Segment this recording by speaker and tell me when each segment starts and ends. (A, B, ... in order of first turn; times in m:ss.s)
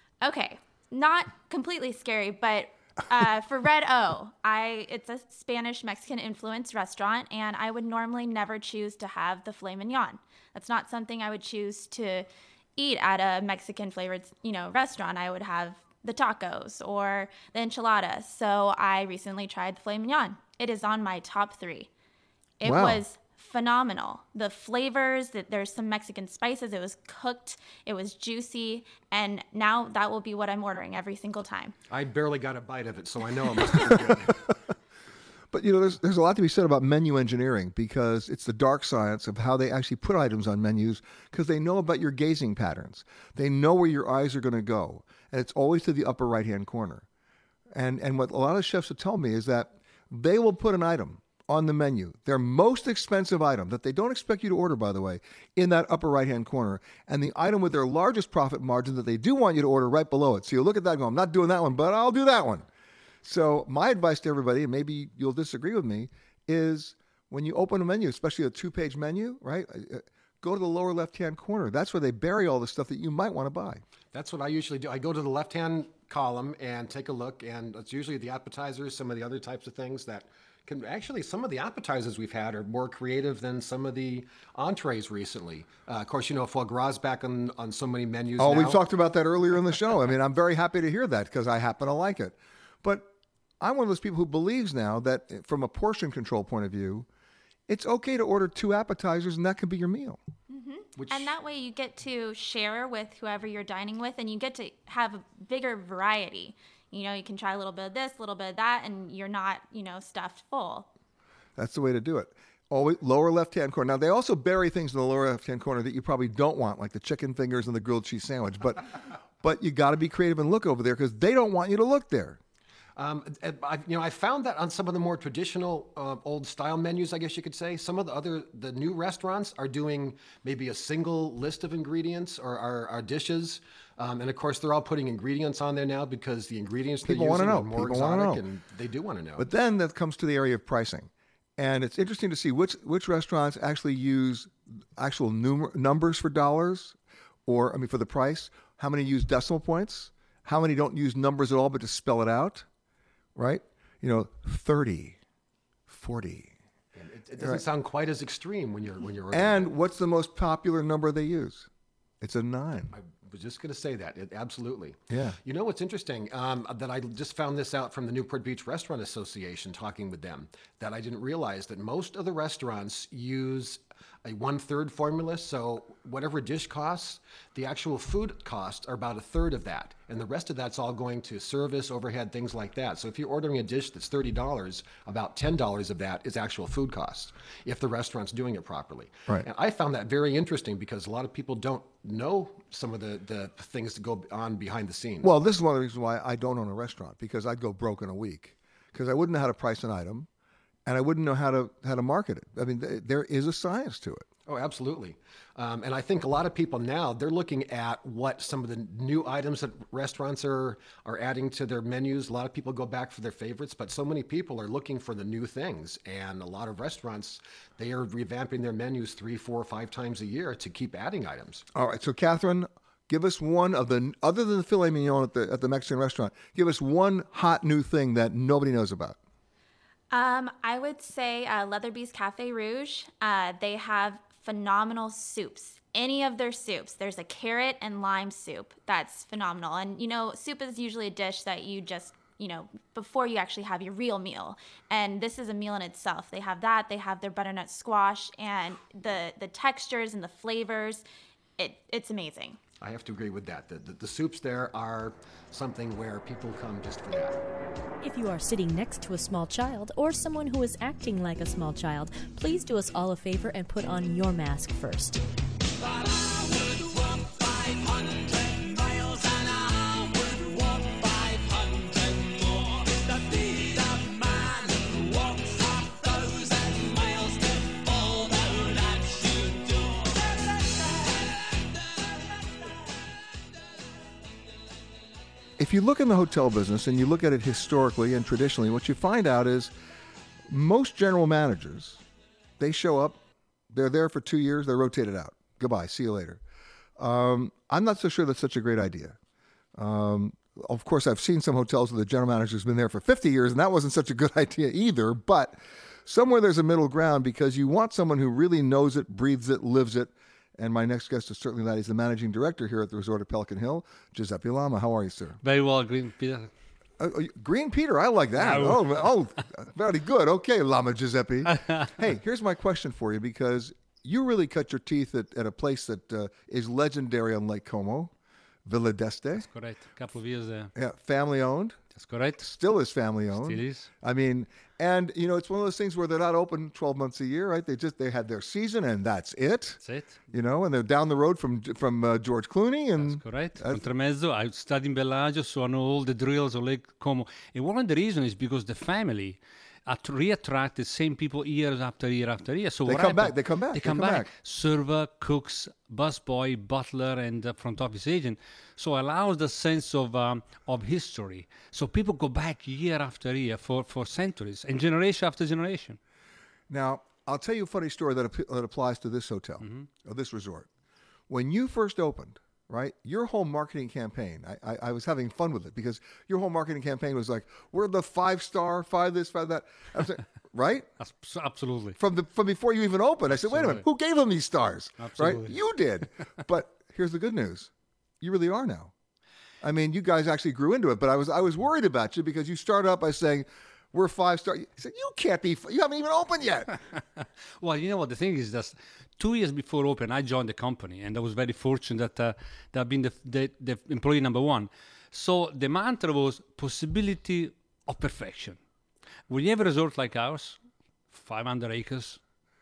0:00.2-0:21.9 A
0:22.6-0:31.7 A
0:22.6-0:23.0 B
0:31.9-0:34.4 C
0:35.5-0:47.0 B
0:47.7-1:02.7 B
1:03.2-1:13.8 B
1:14.1-1:28.8 C
1:28.4-1:37.1 B
1:37.7-1:40.2 B
1:40.5-1:50.9 A
1:41.0-1:41.3 C
1:51.6-2:02.4 B
2:03.0-2:19.5 C
2:17.0-2:18.4 B
2:19.4-2:32.6 B
2:33.3-2:35.2 B
2:35.9-2:36.5 B
2:36.9-2:39.7 C
2:39.3-2:41.7 B
2:42.2-2:42.9 B
2:42.9-3:15.3 C
2:45.1-2:45.4 B
3:15.2-3:20.3 B
3:20.8-3:24.3 B
3:24.4-3:41.6 C
3:41.7-3:49.2 B
3:50.1-4:11.0 A
4:11.6-4:12.6 A
4:12.8-4:17.4 C
4:18.0-4:25.2 D
4:45.6-4:49.7 B
4:50.5-4:52.0 B
4:52.6-4:53.2 B
4:53.7-4:56.4 B
4:57.0-4:59.2 B
4:59.8-5:15.4 B
5:15.4-5:16.5 E
5:17.0-5:28.1 B
5:18.4-5:19.1 E
5:21.5-5:21.9 E
5:28.6-5:29.4 B
5:29.3-5:30.7 E
5:30.7-5:31.8 B
5:31.9-5:32.5 E
5:32.4-5:43.8 B
5:33.3-5:33.9 E
5:39.8-5:40.2 E
5:43.0-6:06.0 E
5:52.8-5:54.3 B
6:06.7-6:10.7 B
6:09.6-6:09.9 E
6:11.3-6:20.9 B
6:21.0-6:22.0 E
6:22.0-6:28.9 B
6:23.2-6:23.8 E
6:25.0-6:25.6 E
6:29.6-6:36.7 B
6:37.6-6:48.6 E
6:49.3-6:50.6 E
6:51.1-6:52.2 E